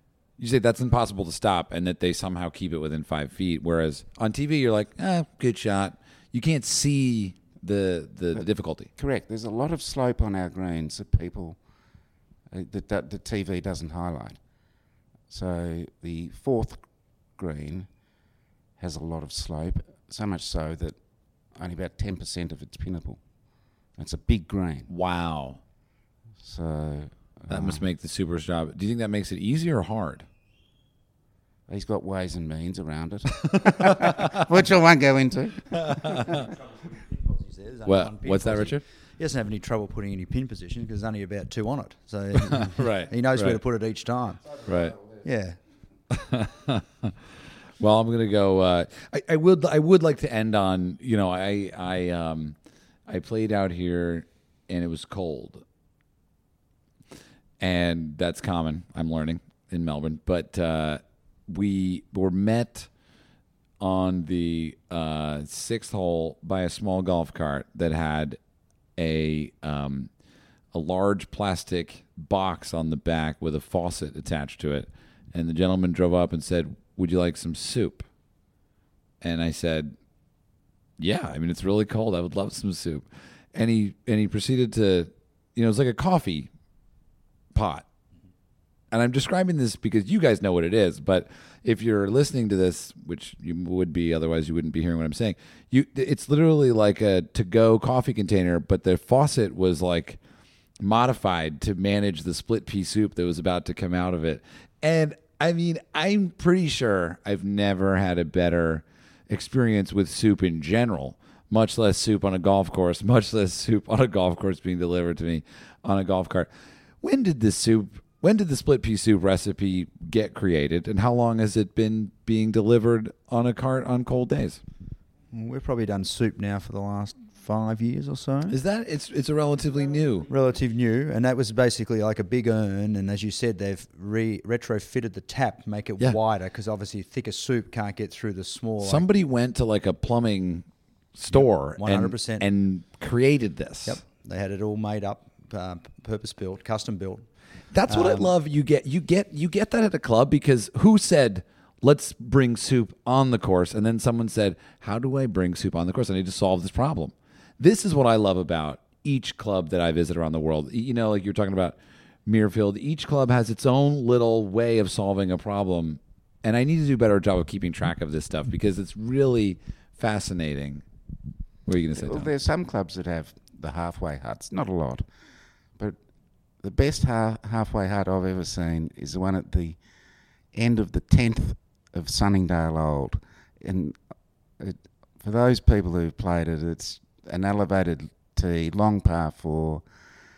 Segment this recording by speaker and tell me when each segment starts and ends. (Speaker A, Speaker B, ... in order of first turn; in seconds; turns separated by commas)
Speaker A: 0.4-8.9, Speaker B: 9.0-11.6, Speaker B: 12.5-14.4, Speaker B: 15.3-16.8, Speaker B: 17.4-17.9, Speaker B: 18.8-21.0, Speaker B: 21.6-23.2, Speaker B: 24.0-24.9, Speaker A: 24.9-25.6, Speaker B: 26.4-27.8, Speaker A: 27.5-30.3, Speaker B: 31.7-36.2, Speaker C: 36.3-44.5, Speaker A: 37.9-38.8, Speaker A: 42.4-43.6, Speaker A: 44.7-45.0, Speaker C: 45.2-45.6, Speaker A: 46.1-47.1, Speaker A: 47.8-55.6, Speaker A: 57.6-62.9, Speaker A: 63.8-68.4, Speaker A: 69.0-70.1, Speaker A: 70.7-78.1, Speaker A: 79.2-80.0, Speaker A: 81.0-86.5, Speaker A: 87.5-87.9, Speaker A: 88.9-100.2, Speaker A: 100.8-116.5, Speaker A: 117.0-124.6, Speaker C: 125.3-128.6, Speaker A: 128.5-130.3, Speaker C: 130.3-139.1, Speaker A: 138.8-144.0, Speaker C: 141.3-142.5, Speaker C: 143.9-147.3, Speaker A: 147.7-170.8, Speaker C: 147.9-148.3, Speaker A: 171.7-172.3, Speaker B: 172.0-175.1, Speaker B: 176.6-179.8, Speaker B: 180.5-184.0, Speaker B: 184.6-189.8